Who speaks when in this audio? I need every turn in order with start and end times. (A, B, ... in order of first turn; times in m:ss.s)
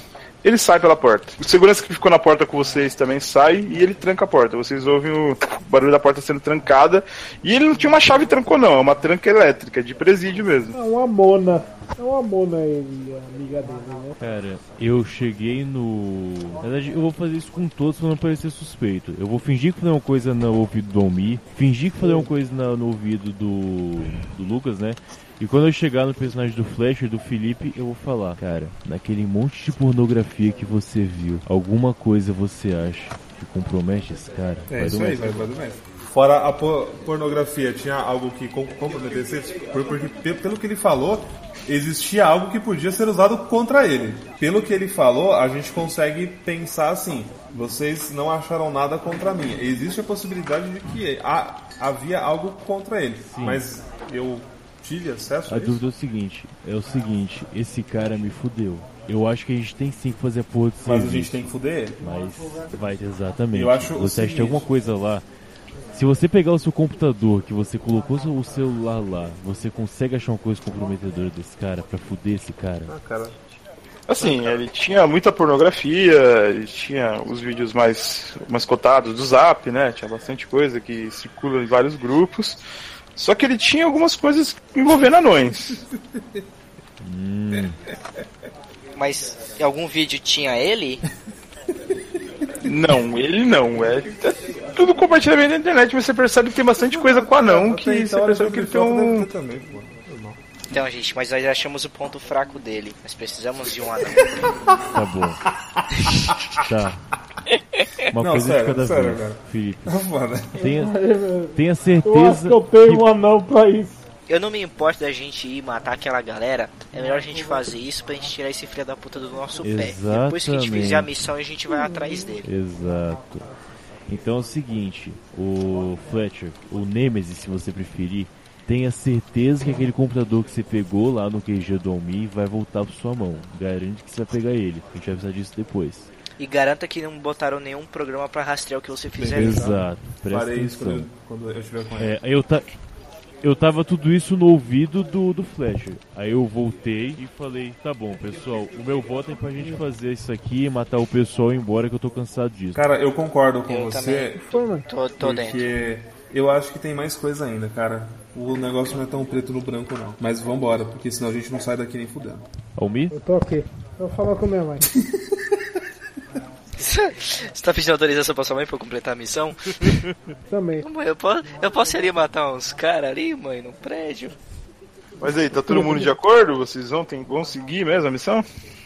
0:00.4-0:10.8 A
0:10.7-0:14.2 B
0:14.2-0:35.5 C
0:22.0-0:22.3 B
0:34.7-0:55.8 D
0:53.3-0:53.6 C
0:55.5-1:01.4 C
1:00.8-1:02.0 D
1:02.0-1:05.2 C
1:03.5-1:04.7 D
1:05.9-1:12.9 C
1:12.9-1:13.4 D
1:14.1-1:22.6 A
1:23.2-1:25.8 A
1:27.0-1:27.8 C
1:29.0-1:31.0 E
1:32.6-1:39.3 A
1:36.9-1:40.4 D
1:40.7-1:44.3 E
1:44.6-1:45.0 D
1:44.9-1:45.4 C
1:45.8-1:46.5 D
1:46.6-1:47.0 C
1:47.8-1:48.1 E
1:48.1-1:50.0 C
1:48.2-1:50.7 D
1:50.6-1:51.0 C
1:50.6-1:54.0 B
1:51.6-1:53.1 C
1:54.3-2:02.5 E
1:59.6-2:01.1 C
2:02.4-2:03.5 C
2:04.1-2:16.1 C
2:16.4-2:19.8 E
2:19.2-2:22.2 D
2:19.3-2:21.1 C
2:22.0-2:22.7 C
2:23.4-2:32.8 C
2:32.8-2:34.4 D
2:33.7-2:35.7 E
2:34.4-2:34.9 B
2:35.2-2:42.5 D
2:42.8-2:43.2 C
2:43.1-2:44.9 B
2:46.8-2:50.0 E
2:50.5-2:50.9 B
2:50.8-2:54.4 E
2:55.2-2:58.4 A
2:55.7-2:56.1 B